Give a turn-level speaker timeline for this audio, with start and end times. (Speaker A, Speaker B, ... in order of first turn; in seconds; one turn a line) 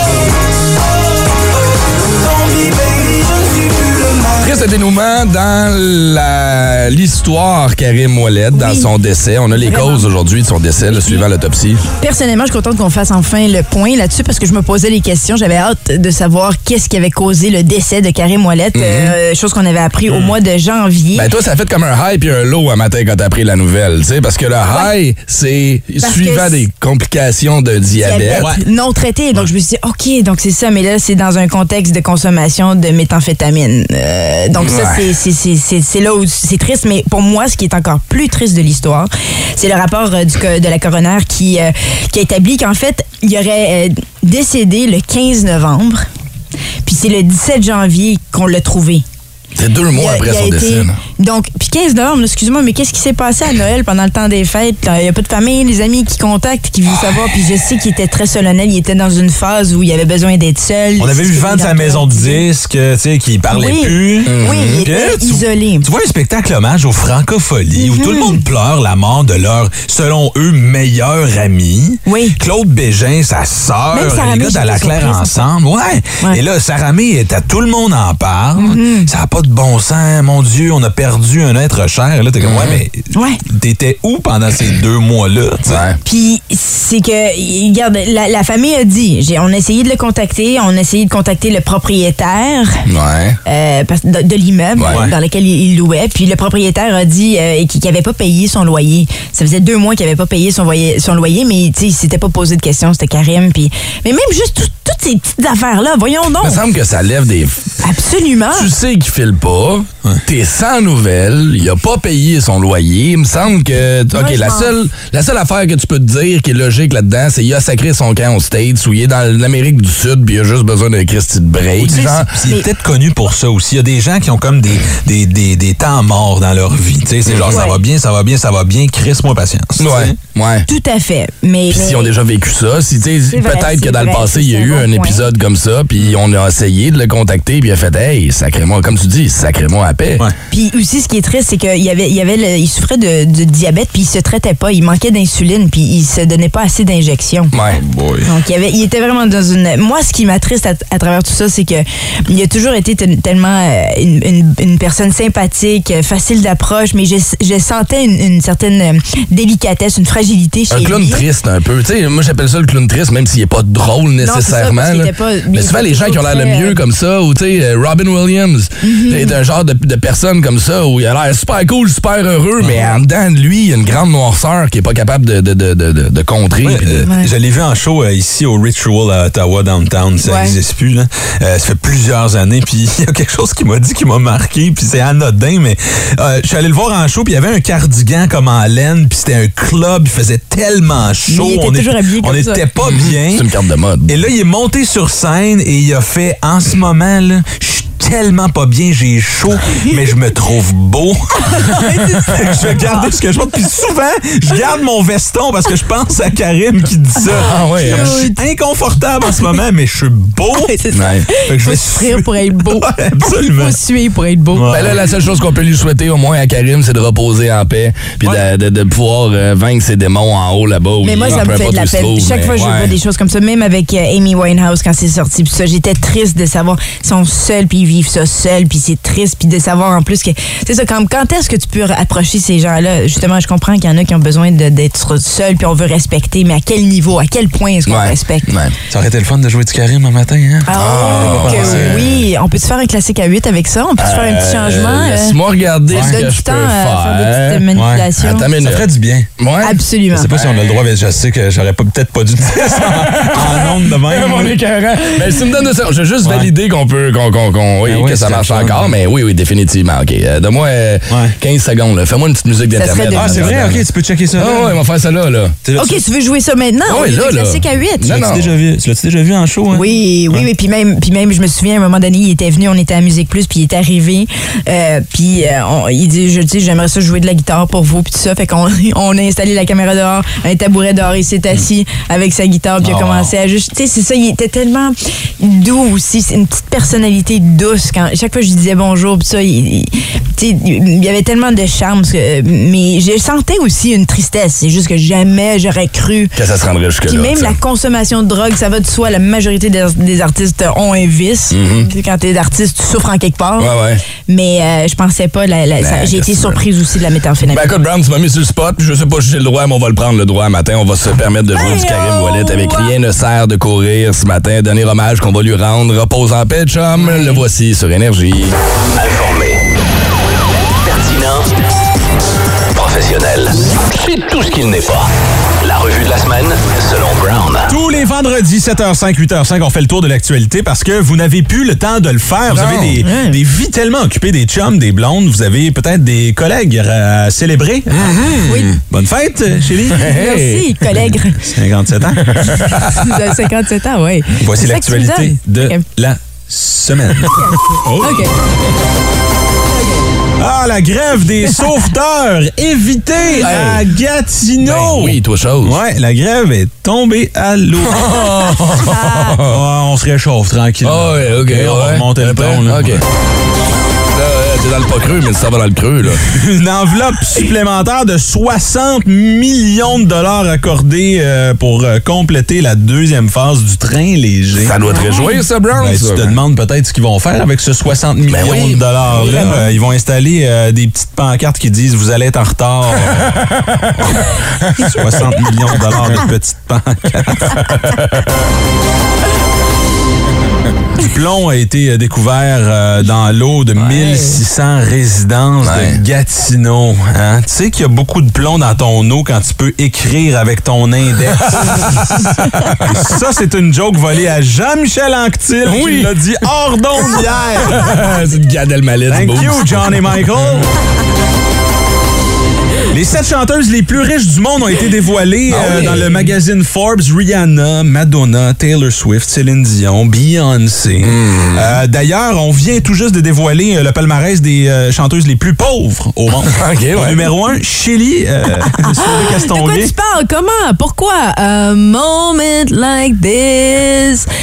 Speaker A: 4.4-11.8
Speaker B: 8.5-8.9
Speaker B: 9.6-10.1
Speaker B: 10.9-11.2
Speaker B: 12.0-21.3
Speaker A: 18.7-19.2
Speaker C: 20.1-20.3
Speaker A: 21.1-28.5
Speaker B: 26.0-26.6
Speaker B: 28.0-46.0
Speaker C: 28.3-28.6
Speaker A: 34.6-35.1
Speaker B: 46.9-49.0
Speaker A: 49.5-51.0
Speaker B: 49.9-62.5
Speaker C: 61.0-85.8
Speaker B: 63.5-65.9
Speaker A: 64.3-64.8
Speaker B: 67.8-68.4
Speaker B: 72.1-72.4
Speaker B: 73.9-75.5
Speaker B: 78.6-79.1
Speaker A: 82.4-82.8
Speaker B: 83.1-83.4
Speaker A: 85.7-86.0
Speaker B: 86.0-92.8
Speaker A: 92.9-93.4
Speaker B: 93.5-106.6
Speaker A: 94.8-95.0
Speaker C: 94.9-95.2
Speaker A: 106.4-107.8
Speaker B: 107.8-108.7
Speaker A: 108.5-122.3
Speaker B: 114.1-114.7
Speaker C: 121.8-130.2
Speaker A: 127.3-127.6
Speaker B: 127.5-127.8
Speaker A: 129.8-130.7
Speaker B: 130.7-132.1
Speaker A: 131.7-140.3
Speaker B: 133.3-135.3
Speaker B: 140.5-147.5
Speaker A: 147.5-147.8
Speaker C: 147.7-148.3
Speaker B: 148.2-161.2
Speaker A: 160.7-177.1
Speaker B: 164.2-166.8
Speaker B: 168.8-169.4
Speaker C: 172.6-172.9
Speaker C: 176.6-193.5
Speaker B: 180.2-180.6
Speaker B: 191.3-192.7
Speaker A: 192.8-194.2
Speaker C: 194.1-210.8
Speaker B: 201.4-203.1
Speaker A: 207.4-208.2
Speaker B: 207.7-208.4
Speaker B: 210.6-214.7
Speaker A: 210.9-211.3
Speaker C: 211.5-213.8
Speaker C: 214.5-215.0
Speaker A: 214.7-223.0
Speaker B: 221.0-238.5
Speaker A: 237.9-238.8
Speaker C: 238.9-242.2
Speaker B: 240.7-245.4
Speaker A: 240.7-242.1
Speaker A: 244.0-249.8
Speaker C: 245.9-246.2
Speaker B: 245.9-248.5
Speaker C: 247.7-249.3
Speaker B: 249.6-250.3
Speaker C: 250.1-254.6
Speaker A: 250.4-250.8
Speaker A: 252.8-265.6
Speaker C: 256.2-256.5
Speaker C: 257.9-258.9
Speaker C: 261.1-261.4
Speaker B: 262.8-263.6
Speaker C: 263.1-264.8
Speaker C: 265.6-266.0
Speaker B: 265.8-268.2
Speaker A: 266.9-268.5
Speaker C: 268.0-270.5
Speaker B: 269.7-296.3
Speaker C: 282.8-283.3
Speaker A: 296.4-297.6
Speaker B: 297.1-303.8
Speaker A: 301.5-301.9
Speaker A: 303.6-304.0
Speaker B: 304.3-307.7
Speaker A: 305.8-306.6
Speaker A: 307.5-318.6
Speaker B: 311.5-312.9
Speaker B: 317.0-317.4
Speaker D: 319.0-319.6
Speaker D: 320.8-321.5
Speaker D: 322.7-325.1
Speaker D: 325.6-327.8
Speaker C: 327.7-340.1
Speaker A: 332.5-333.0
Speaker B: 333.0-333.4
Speaker B: 338.5-338.8
Speaker A: 339.9-340.8
Speaker B: 340.0-341.4
Speaker C: 341.4-342.7
Speaker A: 342.3-343.2
Speaker B: 342.7-345.8
Speaker C: 344.4-348.2
Speaker B: 347.4-348.3
Speaker B: 349.7-350.1
Speaker C: 350.4-358.2
Speaker A: 353.4-353.9
Speaker A: 354.6-355.8
Speaker A: 357.9-359.6
Speaker B: 358.9-359.3
Speaker C: 359.4-363.1
Speaker A: 360.8-363.0
Speaker A: 364.1-366.2
Speaker C: 366.2-374.8
Speaker A: 374.6-376.4
Speaker B: 374.9-375.4
Speaker C: 375.8-383.4
Speaker A: 378.3-379.5
Speaker B: 379.2-379.7
Speaker A: 383.4-383.7
Speaker C: 384.8-387.7
Speaker A: 387.8-388.2
Speaker C: 391.0-407.9
Speaker B: 394.0-394.4
Speaker A: 395.6-396.0
Speaker A: 405.6-406.2
Speaker A: 407.6-410.6
Speaker C: 409.1-410.7
Speaker C: 412.9-429.9
Speaker A: 415.5-416.4
Speaker A: 421.0-421.8
Speaker A: 426.5-427.3
Speaker B: 428.8-434.3